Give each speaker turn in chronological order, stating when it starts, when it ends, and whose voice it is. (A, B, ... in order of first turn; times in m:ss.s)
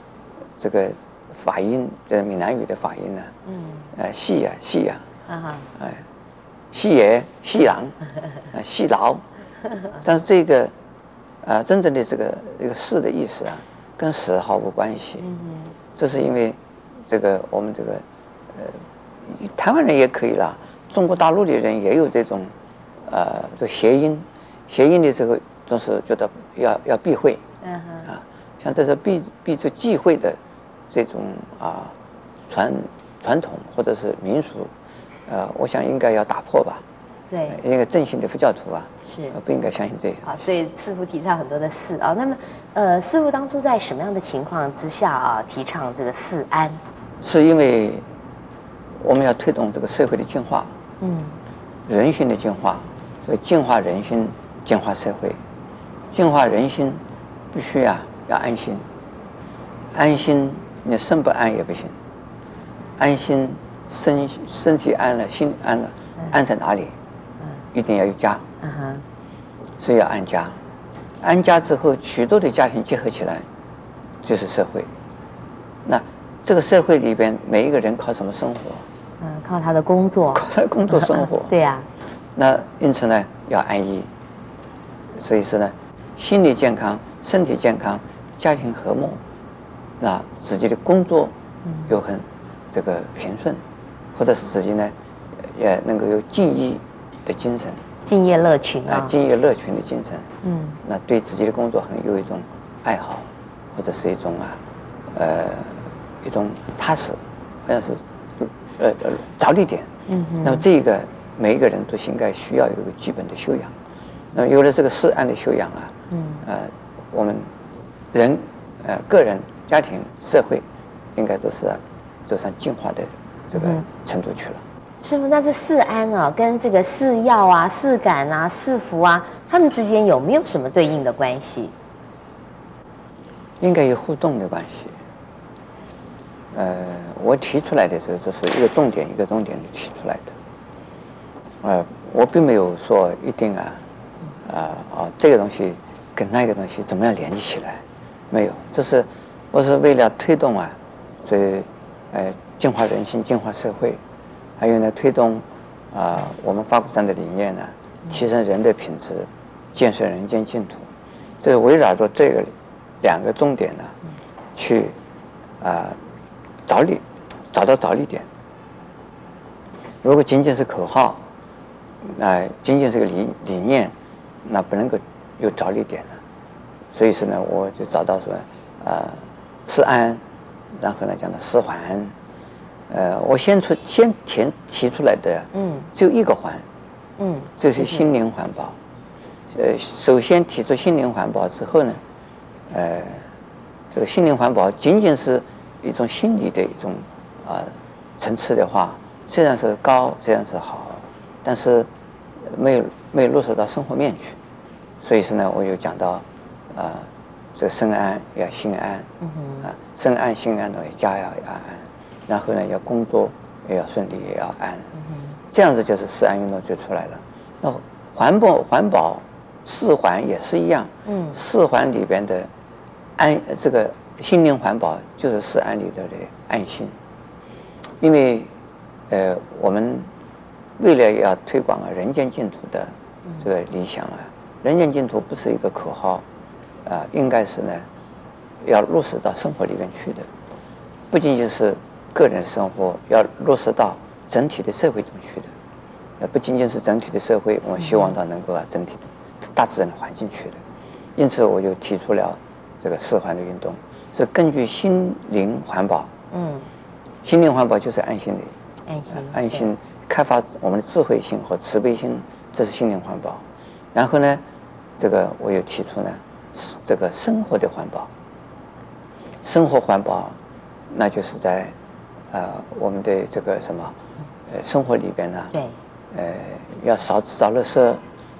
0:00.6-0:03.3 A
0:03.4-0:03.9 B
0:03.9-0:05.0 A
0:05.3-0:05.7 B
0:05.7-0:06.0 A
0:06.7-0:08.0 A
0:08.5-0:09.2 A
0:10.0-0:10.7 A
0:11.4-0:15.2 A
0:15.2-0:15.8 B
0:16.0-0:27.4 A
0:27.6-0:28.1 B
0:28.0-0:30.4 A
0:30.9-0:32.0 A
0:32.5-0:34.7 A
0:35.2-0:36.8 A
0:37.3-0:37.6 B
0:37.4-0:40.4 A
0:39.0-0:39.4 B
0:40.2-0:46.8 B
0:47.2-0:48.0 A
0:49.0-0:50.7 A
0:51.0-0:51.4 B
0:51.9-0:55.4 A
0:56.1-0:58.8 A
0:59.9-1:02.0 A
1:03.0-1:06.9 A
1:07.7-1:08.4 A
1:08.6-1:09.0 B
1:09.8-1:10.6 A
1:11.2-1:13.4 A
1:14.2-1:14.9 A
1:15.8-1:18.9 A
1:19.2-1:21.9 B
1:20.3-1:21.5 A
1:22.3-1:24.1 A
1:25.1-1:29.2 A
1:30.0-1:31.3 A
1:31.6-1:31.9 B
1:31.9-1:33.6 A
1:34.1-1:37.8 A
1:38.0-1:39.1 B
1:38.9-1:40.3 A
1:40.4-1:40.8 B
1:40.8-1:44.6 A
1:45.1-1:49.9 A
1:50.1-1:50.6 B
1:50.4-1:53.7 A
1:54.3-1:57.5 A
1:56.1-1:56.4 B
1:58.1-2:00.6 A
2:01.2-2:04.6 A
2:03.5-2:03.8 B
2:05.0-2:11.7 B
2:13.6-2:15.0 A
2:16.5-2:20.3 A
2:21.6-2:23.8 A
2:24.4-2:34.0 A
2:34.6-2:40.9 A
2:41.4-2:44.0 A
2:44.5-2:45.0 A
2:45.6-2:46.0 A
2:46.6-2:48.3 A
2:50.0-2:51.2 A
2:52.0-2:53.9 A
2:54.4-2:56.2 A
2:56.9-3:00.2 A
3:00.7-3:02.1 A
3:02.9-3:06.6 A
3:05.5-3:05.9 B
3:07.2-3:08.1 B
3:07.6-3:08.8 A
3:09.5-3:12.0 A
3:12.7-3:13.3 A
3:13.9-3:24.4 A
3:25.0-3:29.1 A
3:29.2-3:29.7 B
3:29.6-3:34.9 A
3:34.9-3:35.4 B
3:35.5-3:42.5 A
3:41.0-3:41.4 B
3:43.2-3:46.9 A
3:48.0-3:48.5 A
3:49.1-3:50.1 A
3:50.8-3:56.2 A
3:56.8-3:57.9 A
3:58.6-4:00.3 A
4:01.1-4:05.5 A
4:06.2-4:10.6 A
4:07.8-4:08.2 B
4:11.2-4:16.1 A
4:16.3-4:16.7 B
4:17.2-4:18.5 A
4:18.8-4:19.7 B
4:19.1-4:24.4 A
4:25.0-4:28.1 A
4:29.4-4:30.4 A
4:30.9-4:31.7 A
4:32.3-4:34.0 A
4:34.5-4:35.5 A
4:36.1-4:38.0 A